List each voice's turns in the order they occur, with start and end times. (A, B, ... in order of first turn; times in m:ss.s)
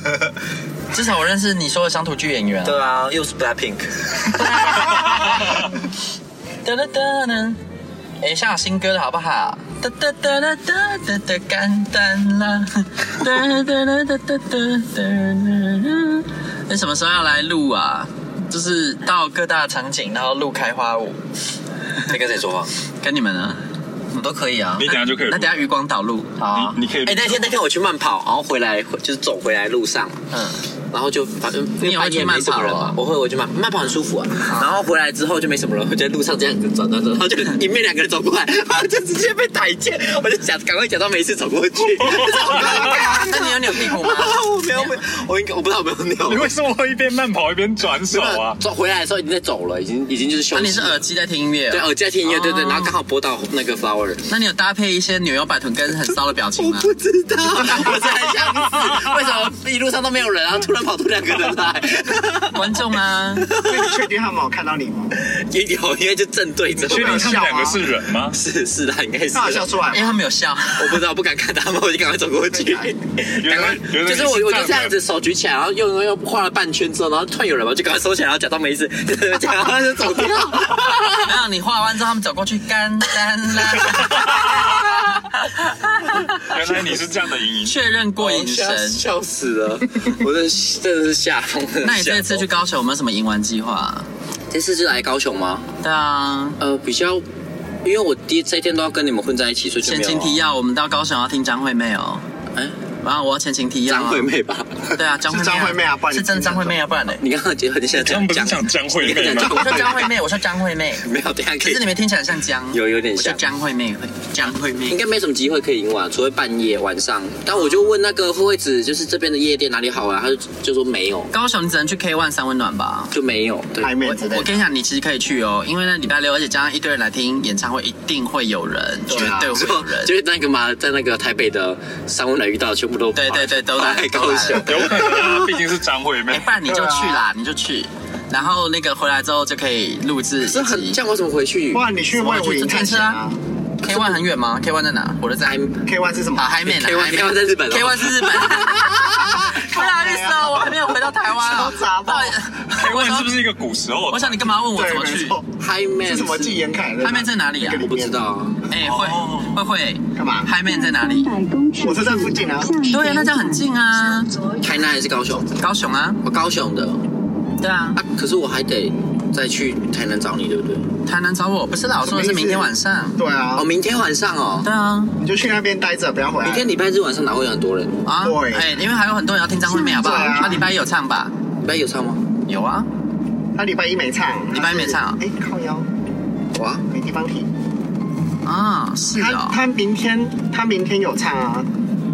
0:00.9-0:02.8 A
0:02.6-0:04.4 B
0:04.3-0:05.7 A
0:06.6-0:07.6 A
0:08.2-0:21.2 A
0:22.1-0:22.7 B
0:23.0-0:23.6 A
0:24.1-0:24.8 B
0:24.8-0:25.7 C
0:24.8-0:26.4 A
0:26.4-0:30.2 B
0:26.5-0:27.5 C
0:30.3-0:30.6 A
0:30.9-0:46.5 B
0:31.8-0:33.0 A
0:34.5-0:34.7 A
0:42.0-0:42.8 C
0:42.6-0:45.0 A
0:46.2-0:48.6 C
0:48.0-0:51.0 B
0:50.5-0:53.0 A
0:51.7-0:54.2 B
0:54.3-0:56.9 A
0:56.6-1:04.1 B
1:02.5-1:03.5 A
1:03.6-1:05.2 D
1:05.1-1:07.4 B
1:06.7-1:08.4 C
1:06.9-1:07.8 D
1:08.3-1:09.7 B
1:09.3-1:10.2 D
1:09.9-1:11.0 A
1:10.8-1:21.4 B
1:13.4-1:15.0 C
1:21.2-1:26.6 A
1:24.0-1:24.5 C
1:26.4-1:27.8 C
1:27.6-1:29.0 A
1:28.2-1:32.4 B
1:31.8-1:34.1 A
1:34.5-1:35.6 B
1:35.8-1:36.6 A
1:36.6-1:37.2 B
1:37.8-1:40.4 B
1:39.8-1:42.2 A
1:43.0-1:44.3 A
1:43.9-1:44.9 B
1:45.0-1:47.2 A
1:45.2-1:46.8 D
1:47.2-1:50.2 B
1:47.9-1:49.7 C
1:49.5-1:51.1 A
1:51.0-1:51.9 B
1:51.6-1:55.0 A
1:52.7-1:53.4 B
1:54.9-2:01.3 B
2:01.3-2:03.1 A
2:03.1-2:04.0 B
2:03.8-2:04.5 D
2:04.0-2:10.1 A
2:09.1-2:09.6 D
2:09.2-2:15.5 B
2:13.2-2:14.8 A
2:14.6-2:16.5 C
2:16.3-2:21.0 A
2:16.6-2:17.3 D
2:20.4-2:21.9 B
2:21.7-2:23.4 D
2:22.1-2:23.2 A
2:23.8-2:25.6 A
2:23.9-2:24.2 B
2:25.4-2:25.8 B
2:25.8-2:26.6 D
2:26.4-2:33.3 A
2:26.6-2:28.7 B
2:29.4-2:32.4 D
2:32.8-2:34.5 C
2:34.1-2:35.4 A
2:34.7-2:35.5 D
2:35.6-2:36.6 B
2:36.0-2:38.2 D
2:37.0-2:37.8 A
2:37.8-2:38.6 B
2:38.7-2:41.3 A
2:38.9-2:39.6 C
2:40.2-2:40.6 D
2:40.7-2:43.7 E
2:41.8-2:43.0 D
2:42.9-2:44.3 A
2:44.6-2:45.6 B
2:45.6-2:46.2 A
2:46.2-2:47.0 B
2:47.6-2:48.0 A
2:48.0-2:50.8 B
2:51.1-2:53.2 A
2:52.0-2:53.6 D
2:53.6-2:54.7 B
2:54.6-2:55.1 A
2:55.2-2:56.7 D
2:56.4-2:58.0 B
2:58.0-3:01.3 A
2:58.2-2:58.7 D
2:59.8-3:00.7 D
2:59.9-3:00.3 E
3:01.6-3:02.2 B
3:02.5-3:02.9 A
3:03.6-3:05.9 D
3:04.5-3:05.2 A
3:06.6-3:06.8 B
3:06.9-3:07.5 D
3:08.4-3:09.6 A
3:09.1-3:11.7 D